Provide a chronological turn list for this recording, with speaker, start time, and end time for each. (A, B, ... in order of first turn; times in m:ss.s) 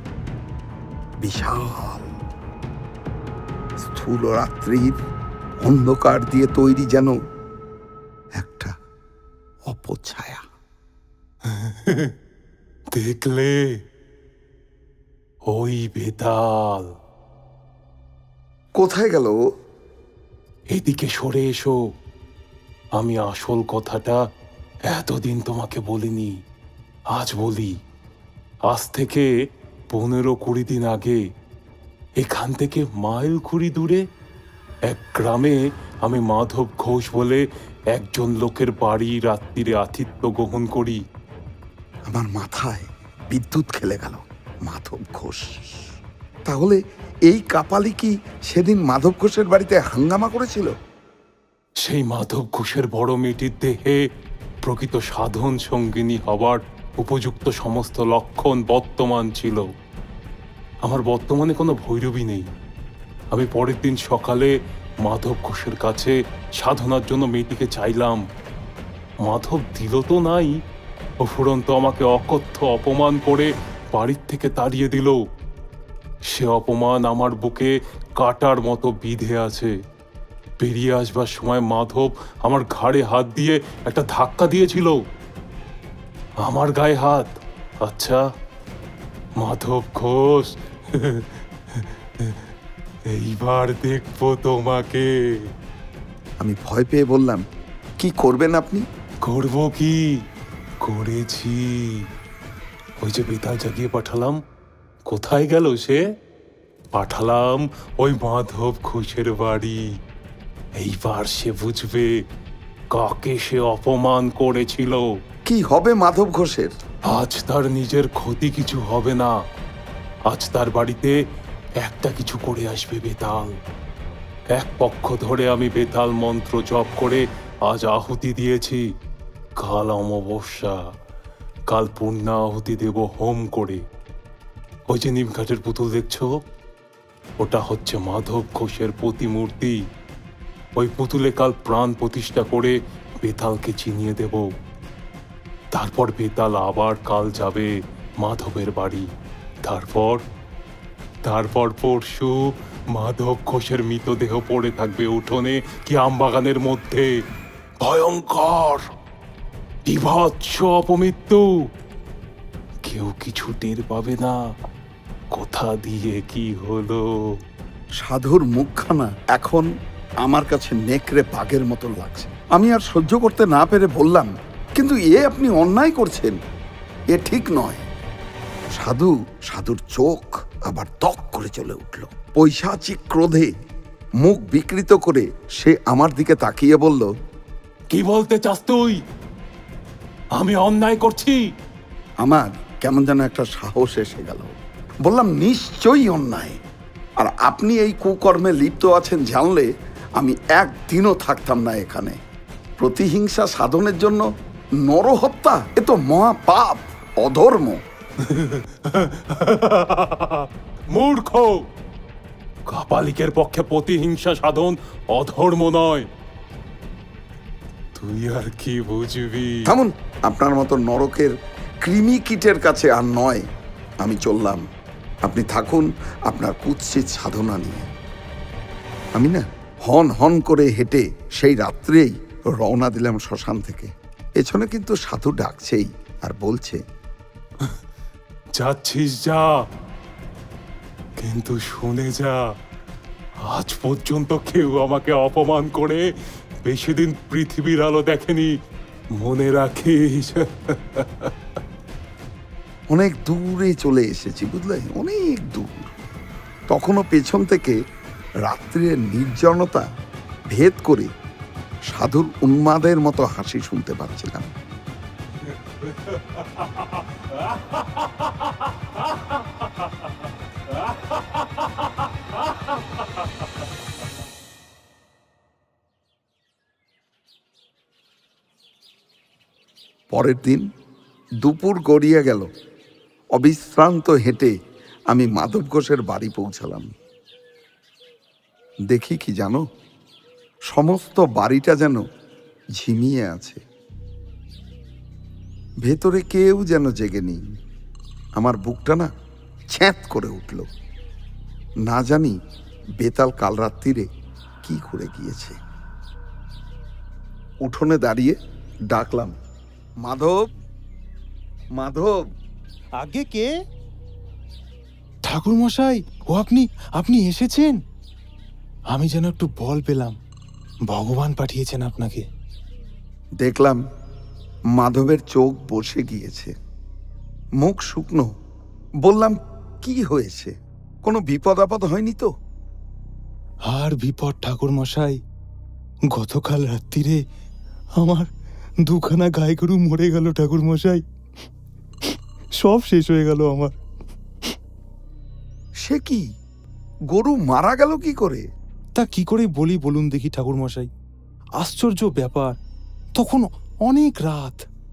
0:01.2-0:02.1 A
0:03.8-0:05.0 A
0:05.6-0:07.2 A
0:08.4-0:08.8 A
0:09.7-0:10.5 A
0:11.5-0:12.1 B
0:12.9-0:13.8 B
0:15.5-0:16.9 B
0:18.8-0:19.4 A
0:20.7-0:21.8 B
0:23.0-0:24.2 B
0:24.9-0:26.3 B
0:27.1-0:27.8 B
0:28.7-0:29.3 B
0:29.9-0:31.2 B
0:32.2-0:34.0 B
0:34.9-0:41.0 B
0:42.1-0:45.9 A
0:46.5-0:50.8 A
0:51.8-0:54.0 B
0:54.6-0:59.6 B
1:00.8-1:02.5 B
1:03.3-1:08.2 B
1:09.2-1:10.6 B
1:11.2-1:15.2 B
1:16.3-1:19.7 B
1:20.6-1:25.0 B
1:26.4-1:28.2 B
1:29.4-1:32.5 B
1:33.1-1:35.5 B
1:36.4-1:37.4 A
1:38.0-1:38.9 A
1:39.2-1:40.2 B
1:40.8-1:42.1 B
1:43.0-1:44.4 B
1:45.1-1:46.0 B
1:46.9-1:49.9 B
1:50.8-1:52.2 B
1:52.9-1:55.1 B
1:55.5-1:56.8 A
1:57.1-1:59.3 B
2:00.3-2:01.2 B
2:01.8-2:03.6 B
2:04.5-2:08.8 B
2:09.6-2:10.8 B
2:11.7-2:13.8 B
2:14.9-2:16.3 B
2:17.4-2:19.8 B
2:20.8-2:24.5 B
2:25.7-2:29.1 B
2:29.6-2:30.2 B
2:31.2-2:37.1 B
2:37.8-2:38.9 B
2:39.9-2:41.4 B
2:42.9-2:44.4 B
2:45.3-2:47.0 B
2:48.0-2:49.7 A
2:50.2-2:56.4 A
2:57.1-2:57.9 A
2:58.8-3:03.5 A
3:04.2-3:07.1 A
3:07.9-3:09.0 B
3:10.4-3:11.4 B
3:12.2-3:16.6 A
3:17.2-3:22.2 A
3:22.8-3:24.3 A
3:24.8-3:27.8 A
3:28.2-3:31.6 B
3:32.7-3:36.1 B
3:38.0-3:39.7 B
3:39.7-3:43.5 A
3:44.0-3:44.7 A
3:45.2-3:47.9 A
3:49.2-3:56.8 A
3:58.6-3:59.5 B
4:01.2-4:02.4 B
4:03.4-4:06.0 B
4:06.6-4:08.5 B
4:09.2-4:11.3 B
4:12.9-4:15.9 A
4:16.7-4:17.8 A
4:18.4-4:19.9 A
4:20.5-4:21.1 A
4:21.9-4:24.5 A
4:40.1-4:40.7 A
4:41.4-4:42.5 A
4:43.4-4:44.5 A
4:45.1-4:46.9 A
4:48.9-4:49.6 A
4:50.7-4:52.0 A
4:52.8-4:53.6 A
4:55.9-4:57.4 A
4:58.4-4:59.1 A
4:59.7-5:00.7 A
5:01.9-5:02.4 A
5:03.0-5:04.1 A
5:04.6-5:05.6 A
5:07.6-5:08.4 A
5:08.9-5:09.3 A
5:10.0-5:10.4 A
5:11.8-5:12.2 A
5:13.0-5:13.5 C
5:15.3-5:17.8 C
5:18.9-5:20.2 C
5:20.9-5:22.3 C
5:23.4-5:23.8 A
5:24.8-5:26.5 A
5:27.6-5:28.3 A
5:29.0-5:32.3 A
5:33.7-5:35.2 C
5:36.2-5:37.2 C
5:38.0-5:38.3 C
5:38.8-5:41.0 C
5:42.0-5:43.8 C
5:45.8-5:46.2 A
5:47.1-5:48.4 A
5:49.0-5:50.9 C
5:51.6-5:52.6 C
5:53.2-5:54.6 C